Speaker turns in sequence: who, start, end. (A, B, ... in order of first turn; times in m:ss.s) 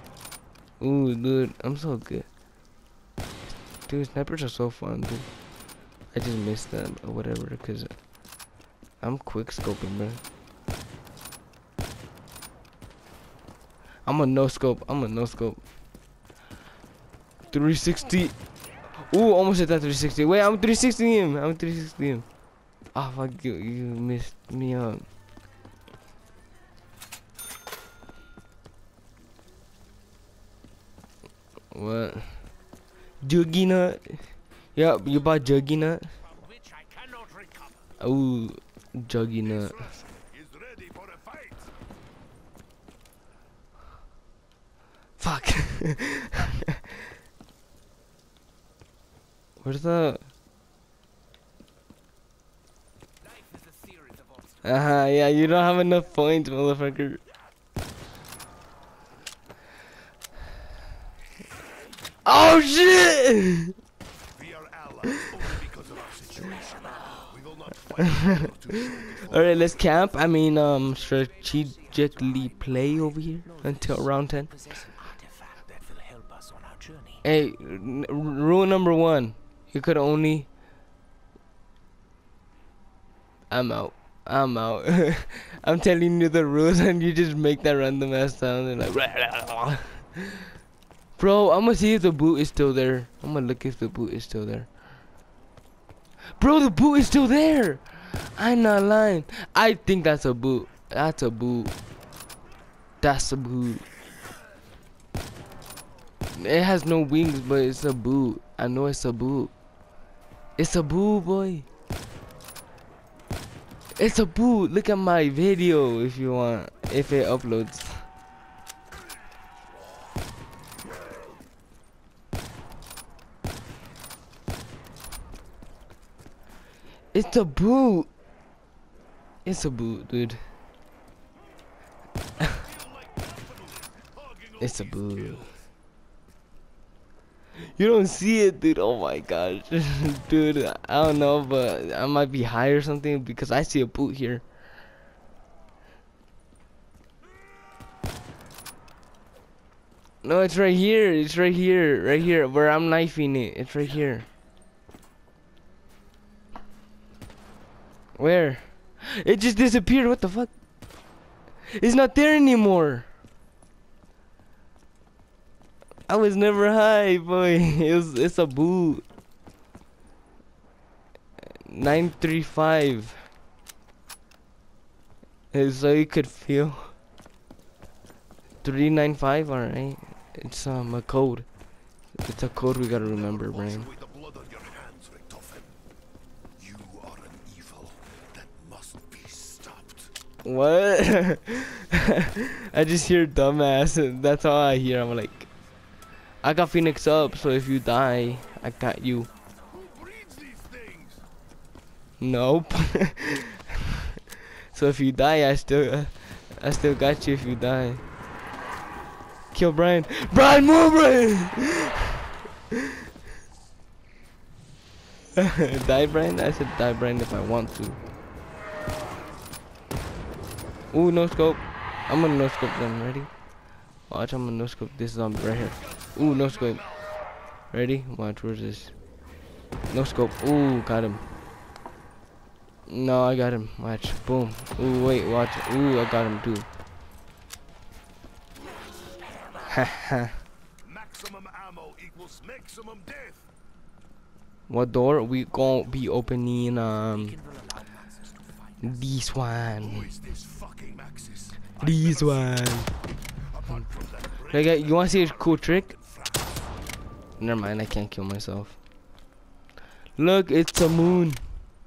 0:00.8-0:02.3 A
0:03.9-0:05.3 A
0:06.1-0:08.0 A
0:09.0-0:10.2 A
0:14.0-0:15.6 A
0:17.5-0:18.4 A
0:19.1-0:22.3 A
0:22.9-0:25.1 A
0:31.7-0:32.4 A
0:33.2-0:34.2 A
0:34.8-0:36.1 A
0:36.1-0:37.9 B
0:38.0-0:39.7 A
0:39.4-0:41.7 C
0:45.2-0:46.5 A
0:49.6-0:50.2 A
0:53.2-0:55.2 B
0:54.6-0:57.2 A
1:02.2-1:03.7 A
1:04.4-1:10.0 C
1:06.4-1:07.4 B
1:08.0-1:14.5 A
1:10.9-1:17.2 B
1:17.2-1:20.5 A
1:23.5-1:30.4 A
1:31.2-1:34.7 A
1:36.4-1:41.7 A
1:43.0-1:43.8 A
1:46.4-1:49.5 A
1:50.6-1:51.7 A
1:54.0-1:58.1 A
2:07.1-2:08.1 A
2:09.4-2:10.4 A
2:12.4-2:15.6 C
2:14.6-2:15.5 A
2:17.8-2:24.4 A
2:30.2-2:34.3 A
2:38.2-2:40.5 A
2:41.8-2:43.1 A
2:46.1-2:49.0 A
2:51.6-2:53.3 A
2:55.5-2:56.9 A
2:58.6-3:01.5 A
3:02.2-3:03.9 A
3:02.8-3:05.8 C
3:06.6-3:10.1 C
3:10.4-3:15.5 A
3:16.4-3:19.3 A
3:19.7-3:21.2 C
3:22.2-3:24.0 A
3:24.7-3:28.0 A
3:29.5-3:32.2 A
3:35.4-3:38.0 A
3:40.9-3:43.3 A
3:44.1-3:46.8 A
3:45.6-3:47.2 C
3:47.7-3:48.9 A
3:49.9-3:51.2 A
3:52.9-3:56.7 A
3:59.7-4:00.4 A
4:00.8-4:03.5 C
4:04.7-4:07.4 A
4:07.1-4:09.1 B
4:08.8-4:10.1 A
4:09.8-4:12.8 C
4:11.8-4:12.9 A
4:13.4-4:16.7 C
4:14.5-4:15.9 A
4:17.4-4:18.8 A
4:20.2-4:21.4 A